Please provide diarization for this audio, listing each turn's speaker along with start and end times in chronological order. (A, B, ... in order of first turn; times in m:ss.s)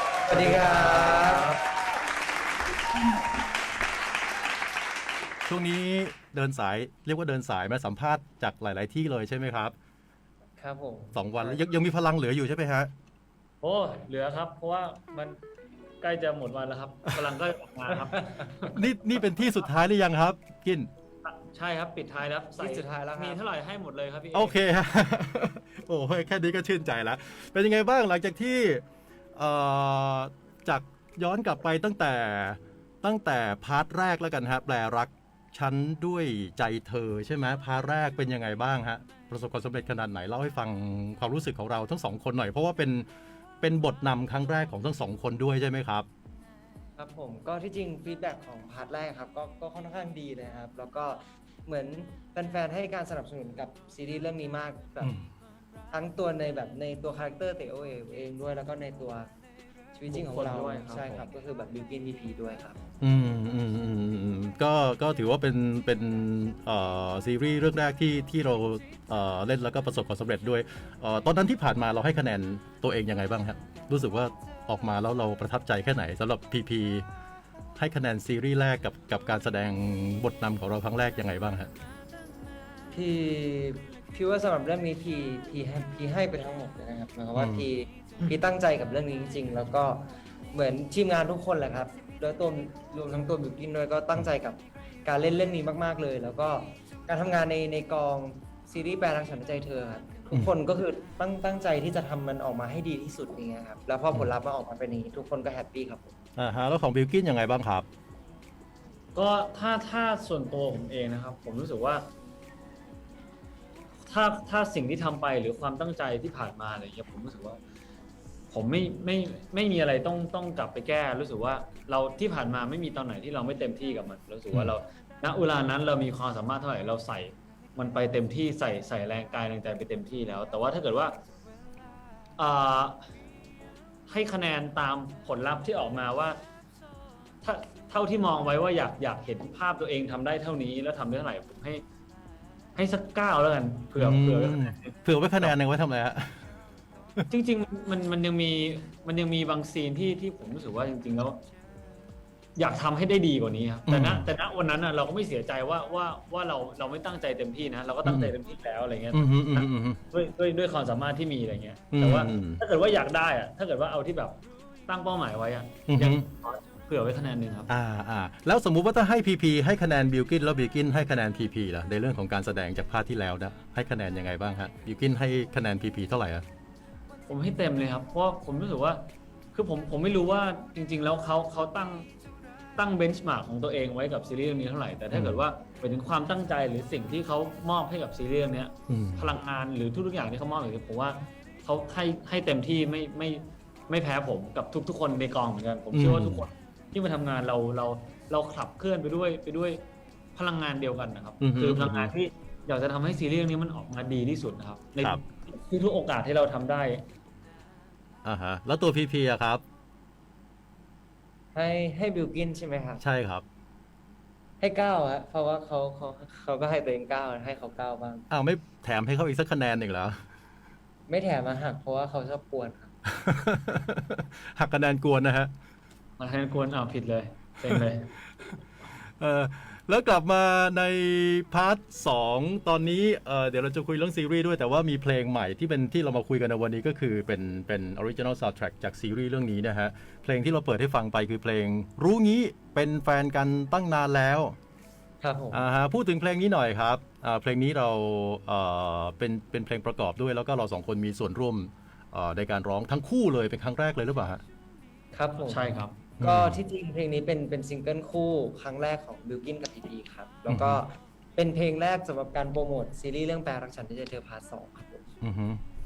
0:00.3-0:01.6 A
0:00.3-0:01.5 B
0:00.3-0:01.2 C
0:05.5-0:09.8 C
0:10.6-0:11.6 B
0:11.1-0:12.9 C
0:13.6-0:15.4 A
0:16.0-0:18.8 A
0:18.2-0:18.5 B
0:18.7-0:20.9 C
0:21.2-0:24.6 A
0:22.6-0:23.4 B
0:24.3-0:28.8 C
0:29.4-0:43.1 C
0:43.6-0:46.1 C
0:47.0-0:55.1 B
0:55.0-0:55.3 C
0:55.9-0:59.3 B
0:59.9-1:02.8 B
1:00.1-1:01.3 A
1:03.0-1:17.0 C
1:17.8-1:21.7 C
1:22.9-1:46.1 B
1:27.4-1:27.7 C
1:46.4-1:47.9 C
1:49.2-1:52.1 A
1:54.1-1:57.6 A
1:58.5-2:11.1 A
2:12.4-2:13.0 A
2:14.1-2:16.4 A
2:17.4-2:21.8 A
2:22.8-2:25.5 A
2:24.0-2:26.5 C
2:27.3-2:31.4 A
2:32.6-2:47.7 A
2:33.9-2:34.3 C
2:38.0-2:38.3 C
2:39.1-2:40.0 C
2:41.9-2:42.6 C
2:45.9-2:46.3 C
2:47.7-2:56.4 C
2:57.3-3:02.1 A
3:02.8-3:19.8 A
3:05.1-3:05.4 C
3:08.9-3:09.3 C
3:15.9-3:16.5 C
3:20.4-3:27.0 A
3:21.4-3:22.1 C
3:28.2-3:29.6 C
3:31.6-3:33.0 B
3:33.0-3:33.4 C
3:34.6-3:38.3 B
3:38.3-3:40.2 C
3:41.1-3:42.9 B
3:43.1-3:45.5 C
3:46.2-3:48.1 A
3:49.1-4:04.6 C
4:05.2-4:05.6 B
4:05.5-4:14.4 C
4:15.1-4:15.7 B
4:15.4-4:16.0 A
4:16.2-4:16.6 C
4:16.2-4:25.0 B
4:20.5-4:20.8 C
4:25.2-4:25.6 C